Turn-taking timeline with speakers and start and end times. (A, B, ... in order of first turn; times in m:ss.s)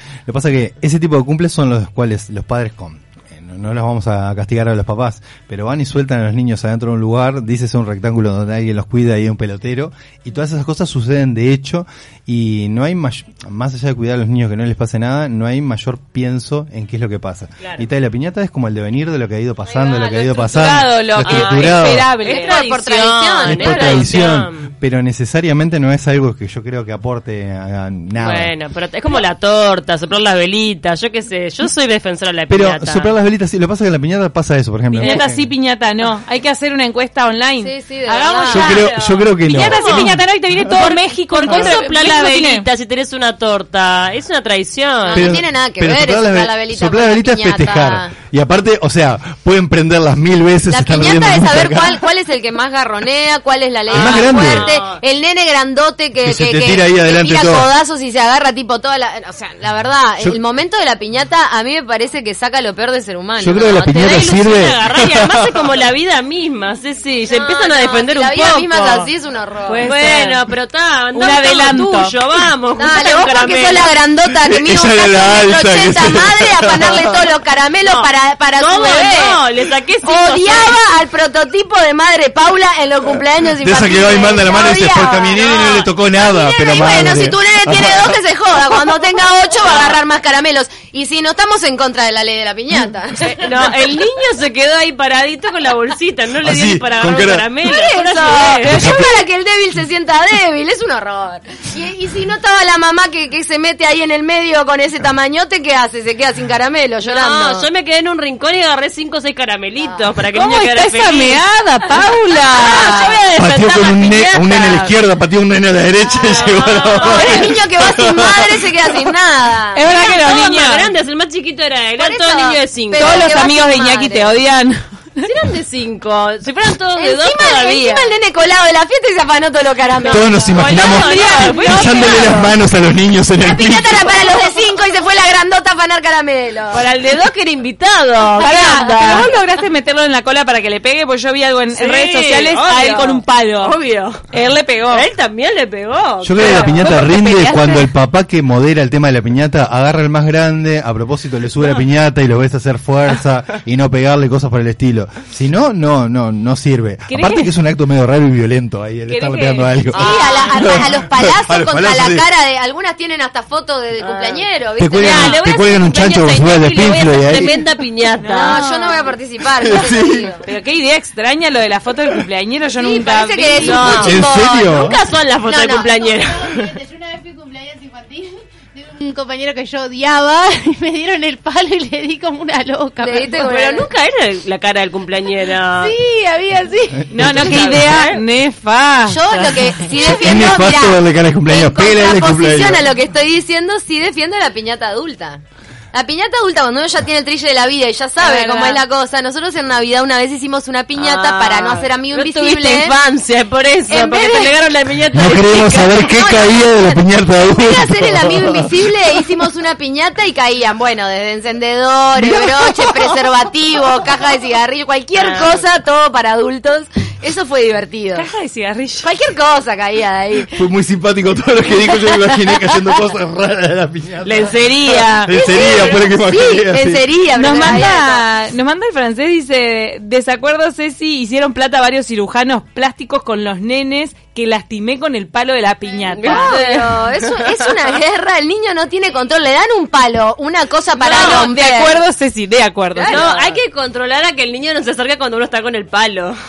0:00.3-0:22.1 A
0:17.6-0:17.9 B
0:19.7-0:22.9 C
0:21.2-0:24.7 B
0:22.3-0:24.1 D
0:23.4-0:28.5 A
0:28.2-0:33.2 B
0:32.5-0:35.5 A
0:35.0-0:35.2 B
0:35.0-0:42.6 C
0:37.6-0:38.8 D
0:38.5-0:40.9 A
0:39.6-0:40.1 B
0:40.8-0:45.3 B
0:41.5-0:41.7 A
0:45.0-0:48.1 D
0:45.1-0:52.0 A
0:50.7-1:04.3 D
0:53.9-0:55.0 B
0:53.9-0:54.7 A
0:56.2-0:57.7 A
1:03.4-1:05.7 A
1:03.8-1:09.1 B
1:07.3-1:09.9 D
1:09.6-1:13.9 B
1:09.7-1:10.4 C
1:11.1-1:12.1 C
1:12.8-1:19.4 D
1:14.3-1:17.3 A
1:17.8-1:20.8 B
1:20.0-1:33.5 D
1:23.6-1:28.2 A
1:33.4-1:38.8 B
1:36.4-1:37.5 A
1:37.6-1:47.7 D
1:38.6-1:39.2 C
1:38.6-1:39.1 A
1:47.0-1:51.4 B
1:49.8-1:50.0 D
1:50.3-1:53.1 C
1:52.5-1:54.9 B
1:52.8-1:53.1 D
1:53.4-1:58.7 A
1:56.1-1:59.8 D
1:56.2-1:57.5 B
1:57.2-1:57.4 C
1:59.7-2:00.9 C
1:59.9-2:03.3 B
2:02.0-2:04.4 D
2:02.9-2:05.3 C
2:05.2-2:08.0 B
2:07.0-2:12.3 D
2:10.0-2:12.4 B
2:10.1-2:14.5 A
2:10.8-2:12.4 C
2:13.4-2:16.9 D
2:16.7-2:19.3 B
2:18.4-2:19.3 D
2:18.4-2:23.7 C
2:21.7-2:24.2 B
2:24.3-2:25.0 C
2:24.9-2:26.9 B
2:26.2-2:42.2 A
2:26.3-2:27.9 C
2:37.1-2:37.5 C
2:39.1-2:40.8 C
2:39.9-2:46.3 D
2:44.0-2:44.4 B
2:44.8-2:47.6 A
2:45.0-2:45.9 C
2:45.1-2:48.6 B
2:48.2-2:49.1 C
2:48.4-2:50.4 D
2:49.6-2:50.3 A
2:50.4-2:54.1 C
2:52.8-2:54.9 D
2:53.6-2:56.8 B
2:53.8-2:55.0 A
2:55.4-2:56.1 D
2:56.1-3:03.3 E
3:03.0-3:03.9 D
3:03.4-3:06.0 B
3:05.8-3:07.1 E
3:07.1-3:09.2 C
3:07.1-3:07.6 A
3:07.2-3:08.2 B
3:09.1-3:23.1 D
3:09.3-3:10.1 B
3:10.0-3:12.8 A
3:18.2-3:18.8 C
3:20.9-3:26.0 B
3:23.9-3:24.6 D
3:25.1-3:28.9 A
3:25.6-3:38.3 D
3:32.2-3:33.1 A
3:35.1-3:35.6 B
3:38.1-3:39.1 C
3:39.0-3:40.5 D
3:40.5-3:47.8 A
3:44.2-3:45.1 B
3:44.4-3:45.3 C
3:45.2-3:48.2 D
3:47.4-3:56.6 C
3:56.1-3:57.6 B
3:56.2-4:02.0 D
4:01.0-4:03.2 C
4:01.0-4:01.5 B
4:02.9-4:03.6 D
4:03.1-4:06.4 B